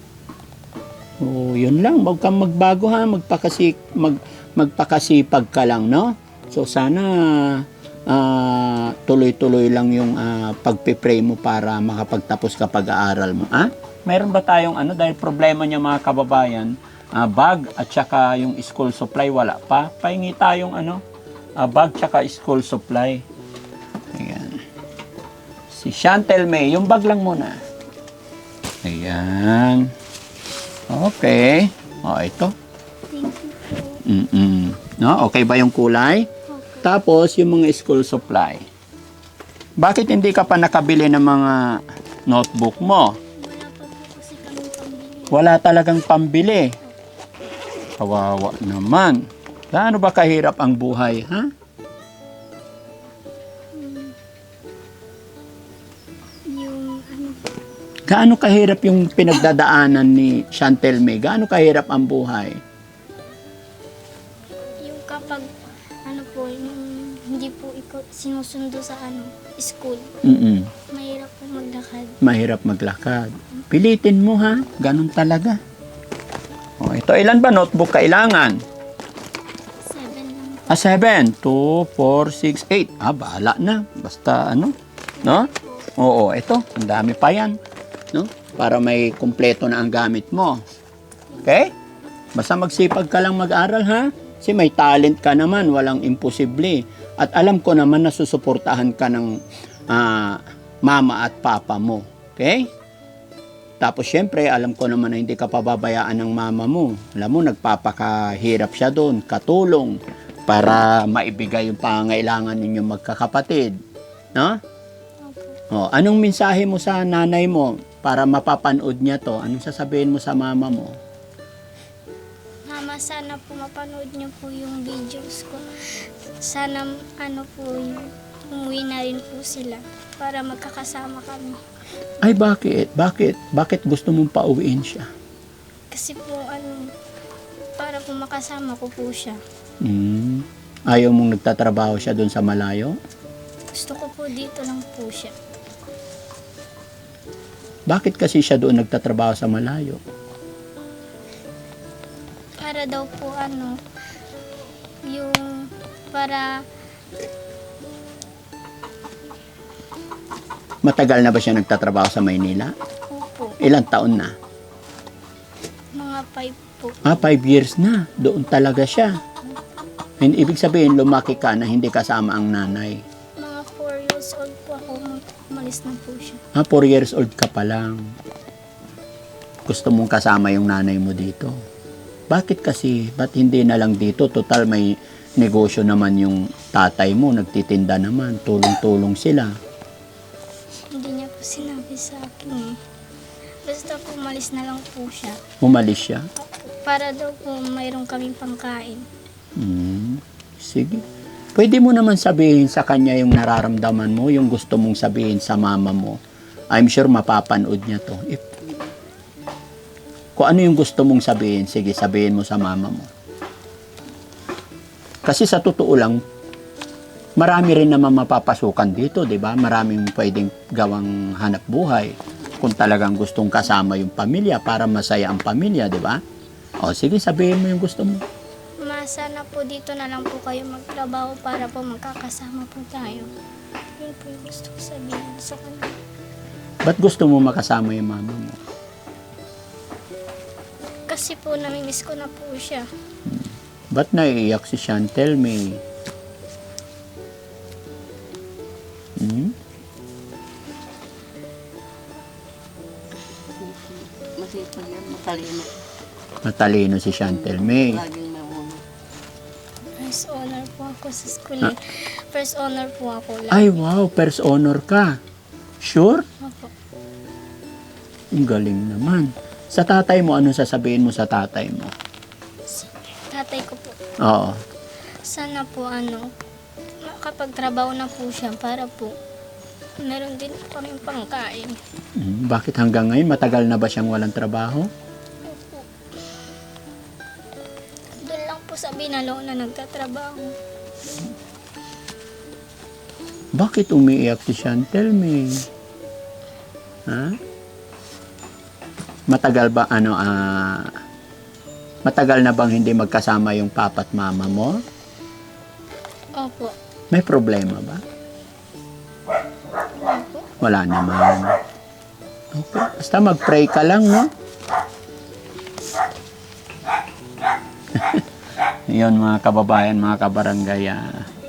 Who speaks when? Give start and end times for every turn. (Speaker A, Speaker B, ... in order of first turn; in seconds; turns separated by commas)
Speaker A: 1.2-21.0, Speaker A: 21.6-23.2, Speaker A: 24.1-24.6, Speaker A: 25.7-27.6, Speaker A: 28.8-29.9, Speaker A: 30.9-32.5, Speaker B: 33.1-34.0, Speaker A: 34.0-36.3, Speaker B: 36.5-36.9, Speaker A: 36.8-38.6, Speaker A: 39.8-43.2, Speaker B: 43.4-45.5, Speaker A: 45.3-46.8, Speaker A: 48.0-51.5, Speaker B: 53.7-54.1, Speaker B: 56.5-57.5, Speaker A: 58.1-62.6, Speaker B: 64.8-65.5, Speaker B: 66.0-70.1, Speaker A: 70.2-70.7, Speaker B: 70.9-72.2, Speaker A: 72.2-75.6, Speaker A: 76.8-78.6, Speaker B: 79.8-80.9, Speaker A: 80.7-87.6, Speaker B: 85.2-85.9, Speaker A: 88.1-90.6, Speaker A: 91.4-91.7, Speaker A: 92.4-102.7, Speaker A: 103.8-113.8, Speaker B: 115.2-115.6, Speaker A: 115.7-121.0, Speaker B: 122.7-131.6, Speaker A: 132.2-135.1, Speaker B: 135.9-136.9, Speaker B: 137.8-139.4, Speaker A: 139.8-143.0, Speaker B: 143.7-145.3, Speaker A: 147.9-150.0, Speaker B: 152.6-153.8, Speaker B: 155.0-156.6, Speaker A: 160.8-162.7, Speaker B: 163.1-163.6, Speaker A: 163.6-164.3, Speaker B: 165.9-167.2, Speaker A: 167.0-169.2, Speaker A: 170.2-173.0, Speaker B: 173.4-176.4, Speaker A: 176.5-178.1, Speaker A: 179.7-181.5, Speaker A: 182.3-189.5, Speaker B: 190.9-192.8, Speaker B: 193.6-195.4, Speaker A: 195.6-196.2, Speaker B: 196.4-199.1, Speaker A: 199.6-201.0, Speaker A: 201.5-206.2, Speaker A: 206.7-208.4, Speaker C: 208.6-208.9, Speaker A: 210.4-213.1, Speaker A: 215.2-216.2, Speaker A: 217.4-226.2, Speaker A: 226.8-228.2, Speaker B: 228.8-233.3, Speaker B: 234.0-236.0, Speaker A: 236.8-238.6, Speaker B: 241.1-242.9, Speaker A: 243.2-245.8, Speaker A: 249.2-249.5, Speaker C: 253.5-255.8, Speaker A: 256.4-258.0, Speaker C: 257.3-258.8, Speaker B: 260.0-263.7, Speaker A: 263.5-265.2, Speaker A: 265.8-266.2, Speaker B: 266.4-266.7, Speaker A: 268.3-271.9, Speaker B: 272.7-274.0, Speaker A: 274.2-274.6, Speaker B: 275.2-276.3, Speaker B: 277.0-279.1, Speaker B: 280.0-281.8, Speaker A: 282.2-284.9, Speaker B: 285.4-286.4, Speaker B: 288.2-290.6, Speaker A: 293.6-295.7, Speaker A: 297.1-297.4, Speaker A: 299.3-300.9, Speaker A: 302.0-304.8, Speaker B: 306.4-306.7, Speaker A: 307.1-308.0, Speaker B: 310.0-310.5, Speaker A: 310.6-311.6, Speaker A: 312.5-314.3, Speaker A: 317.9-318.2, Speaker A: 318.9-321.3